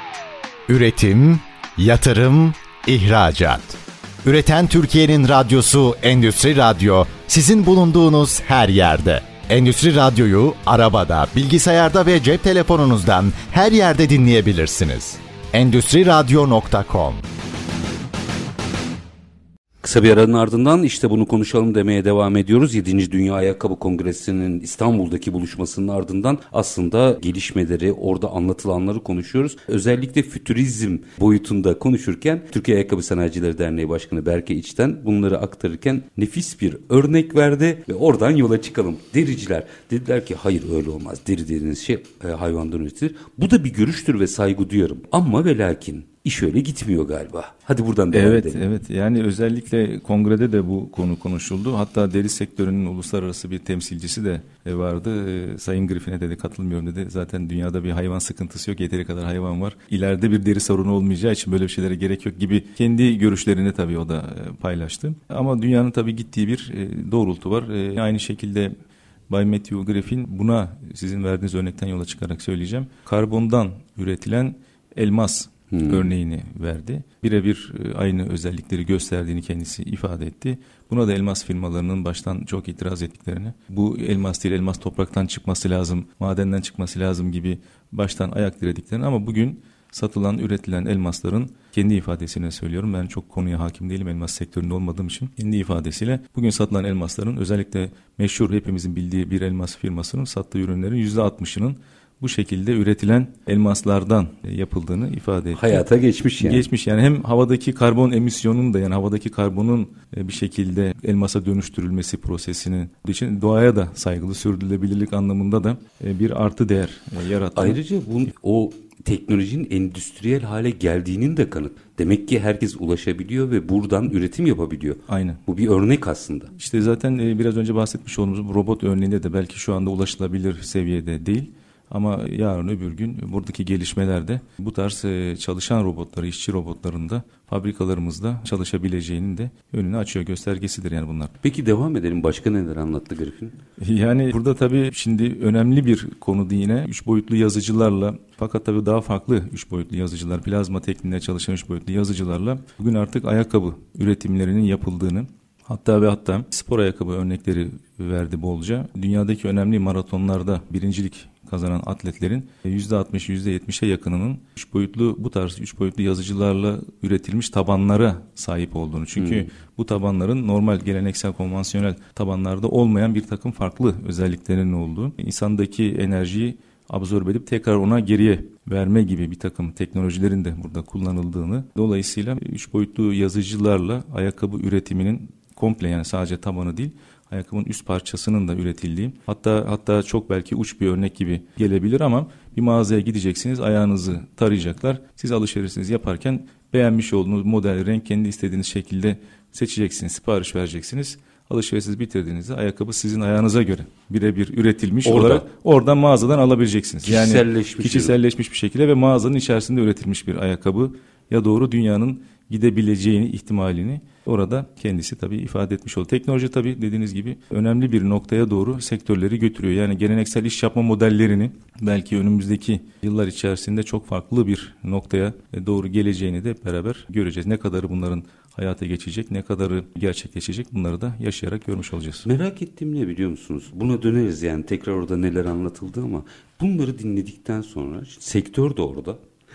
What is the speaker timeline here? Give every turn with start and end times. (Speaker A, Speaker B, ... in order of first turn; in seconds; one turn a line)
Speaker A: 0.7-17.2
Speaker B: 19.8-48.6
Speaker C: 48.1-68.7
Speaker C: 69.3-105.8
Speaker B: 75.7-76.1
Speaker B: 105.5-106.7
Speaker C: 106.4-117.8
Speaker B: 117.5-126.5
Speaker C: 125.1-125.4
Speaker C: 126.5-141.3
Speaker B: 141.4-143.6
Speaker C: 143.8-232.3
Speaker B: 169.2-169.4
Speaker B: 205.0-205.4
Speaker B: 207.0-208.1
Speaker B: 232.2-239.2